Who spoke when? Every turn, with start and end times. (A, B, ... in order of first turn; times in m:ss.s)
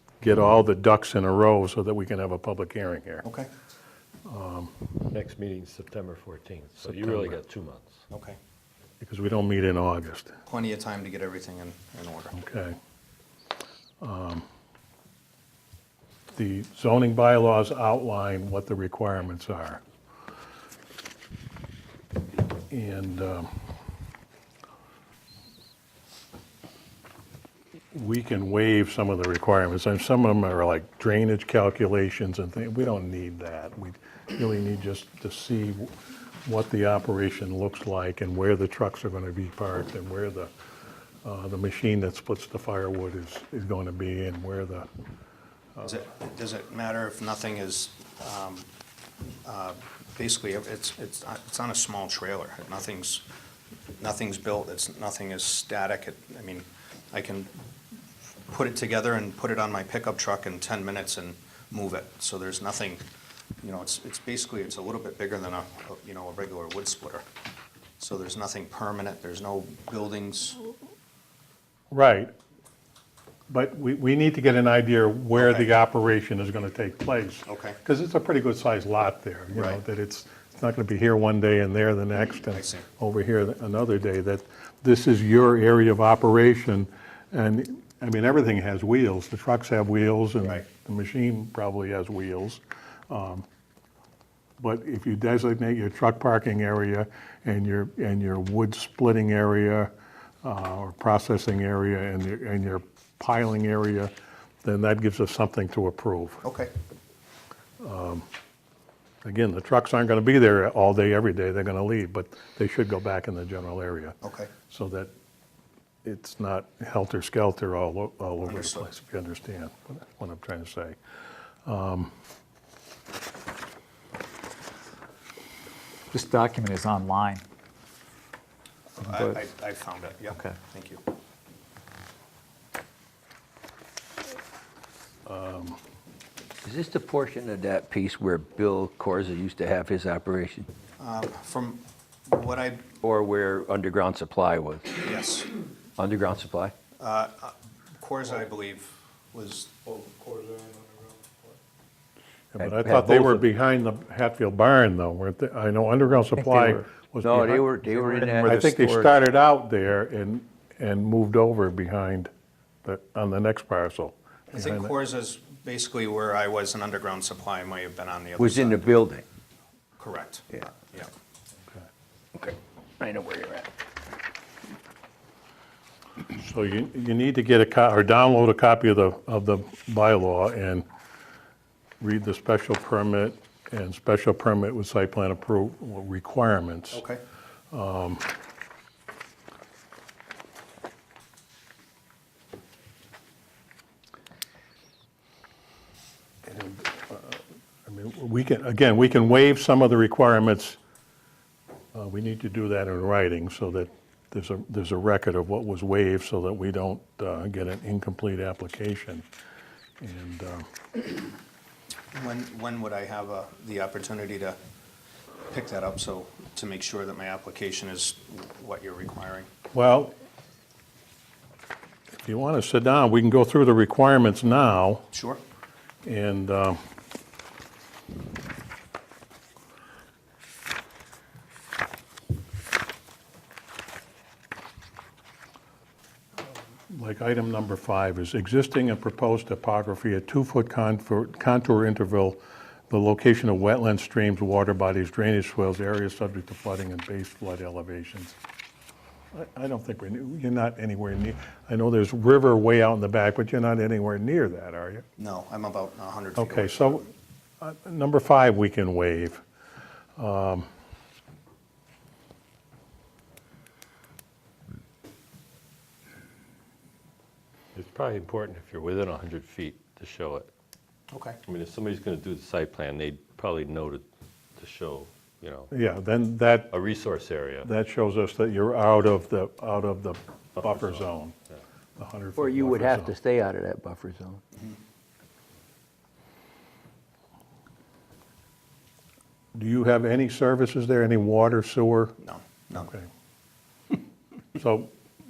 0:00.2-0:03.2 A
0:04.2-0:04.7 A
0:05.1-0:08.0 B
0:08.1-0:08.4 C
0:09.0-0:10.4 A
0:10.4-0:12.3 C
0:12.3-0:12.8 A
0:14.0-0:14.4 A
0:16.3-0:19.8 A
0:22.7-0:23.5 A
0:27.9-0:35.9 A
0:36.4-0:40.5 A
0:41.2-0:44.9 A
0:45.8-0:48.7 C
0:49.4-0:53.3 C
0:54.0-0:57.5 C
0:58.5-1:03.0 C
1:03.6-1:07.2 C
1:08.0-1:10.6 C
1:11.9-1:12.3 A
1:13.5-1:33.4 A
1:15.3-1:15.7 C
1:17.4-1:17.8 C
1:19.5-1:19.8 C
1:22.5-1:22.8 C
1:34.6-1:39.9 A
1:40.4-1:44.1 A
1:44.6-1:46.4 A
1:46.4-1:46.7 C
1:47.8-1:48.3 A
1:49.2-1:55.1 A
1:54.2-1:54.5 C
1:56.0-2:01.0 A
1:58.4-1:58.9 C
2:01.6-2:02.1 A
2:06.1-2:07.4 D
2:09.0-2:11.0 C
2:15.2-2:15.8 A
2:16.6-2:20.7 E
2:21.0-2:22.9 C
2:23.0-2:25.0 E
2:25.0-2:25.5 C
2:26.0-2:26.7 E
2:27.0-2:29.8 C
2:32.5-2:42.3 A
2:32.6-2:33.4 E
2:36.4-2:36.7 D
2:37.2-2:39.1 E
2:38.1-2:38.5 D
2:42.8-2:44.9 A
2:44.5-2:48.9 C
2:48.4-2:49.2 E
2:50.0-2:51.1 C
2:52.4-2:53.7 E
2:56.3-3:00.8 A
3:02.0-3:07.0 A
3:06.9-3:07.2 C
3:07.7-3:08.2 A
3:16.4-3:20.8 A
3:21.9-3:29.2 A
3:30.0-3:30.7 A
3:32.1-3:34.6 C
3:35.5-3:39.5 C
3:39.7-3:40.1 A
3:42.2-3:45.1 A
3:45.1-3:45.4 C
3:46.0-3:46.8 A
3:56.9-4:02.4 A
4:02.9-4:08.4 A
4:09.3-4:15.0 A
4:15.2-4:17.0 C
4:16.4-4:17.1 A
4:17.6-4:19.4 A
4:20.2-4:20.7 A
4:27.7-4:30.5 B
4:31.1-4:31.4 C
4:31.4-4:34.0 B
4:34.6-4:35.7 B
4:35.7-4:36.7 A
4:36.7-4:37.7 B
4:37.6-4:41.3 A
4:40.6-4:41.0 B
4:42.0-4:43.1 A
4:42.4-4:44.4 E
4:49.5-4:52.2 A
4:52.2-4:52.9 C
4:52.7-4:53.1 A
4:54.5-4:54.9 A